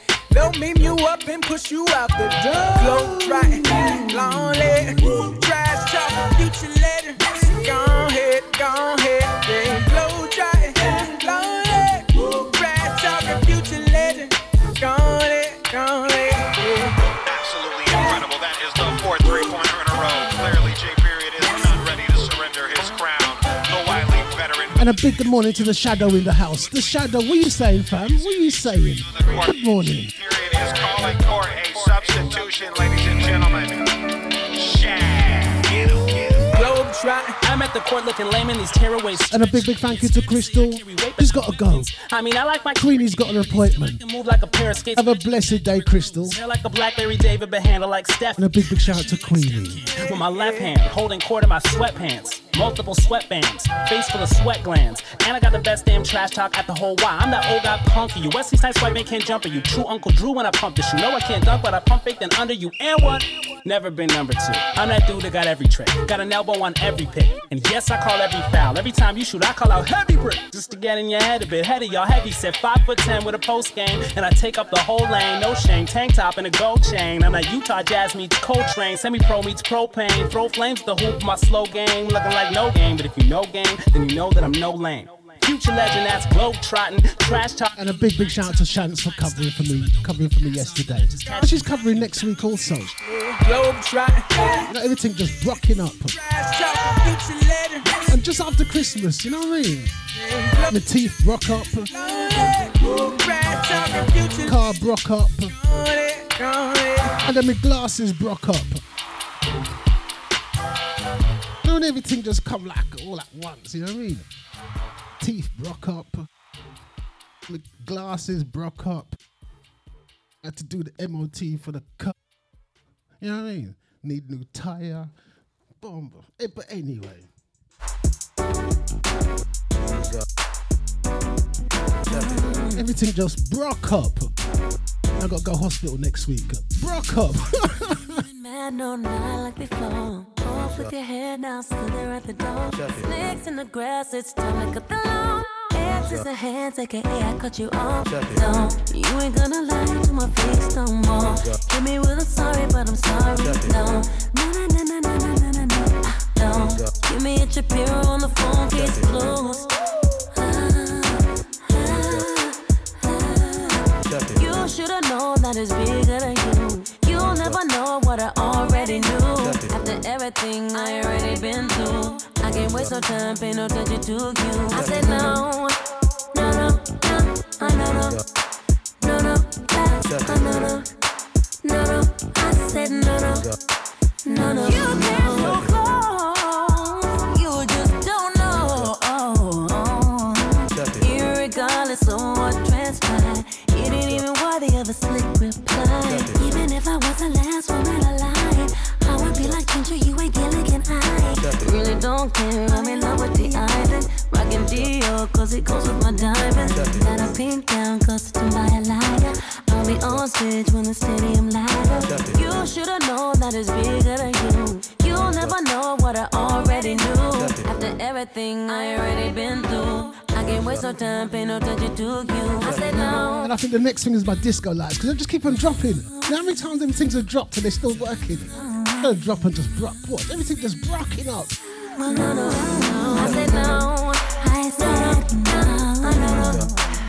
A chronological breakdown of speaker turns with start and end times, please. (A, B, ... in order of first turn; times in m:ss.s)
0:00.3-0:16.9 A
0:17.2-0:24.8 B
0:24.8-0:30.1 C
0:29.1-0:33.8 B
0:34.6-0:36.5 B
0:36.5-0:37.4 A
0:37.4-0:39.6 D
0:39.3-0:41.9 C
0:40.8-0:41.3 D
0:41.8-0:42.8 D
0:42.8-0:44.0 C
0:44.0-0:45.2 D
0:45.0-0:46.4 C
0:46.2-0:48.4 D
0:48.4-0:49.8 C
0:49.9-1:27.7 D
1:27.8-1:33.0 C
1:33.4-1:34.7 A
1:34.7-1:36.2 C
1:36.1-1:38.0 A
1:38.1-1:39.9 C
1:40.2-1:40.8 A
1:40.7-1:41.9 C
1:41.9-1:44.6 A
1:44.4-1:45.5 C
1:45.5-1:47.2 A
1:47.2-1:48.8 C
1:51.6-1:54.2 C
1:55.2-1:56.3 C
1:57.5-1:59.2 C
2:00.4-2:02.1 C
2:03.2-2:05.1 C
2:05.8-2:07.3 C
2:12.1-2:12.7 E
2:12.7-2:14.3 C
2:15.2-2:18.2 C
2:18.1-2:39.7 E
2:40.3-2:55.8 E
2:56.3-2:58.2 E
2:59.0-3:00.9 E
3:01.6-3:03.5 E
3:04.2-3:43.5 E
3:43.3-3:51.6 C
3:48.6-3:49.0 E
3:51.9-3:56.7 E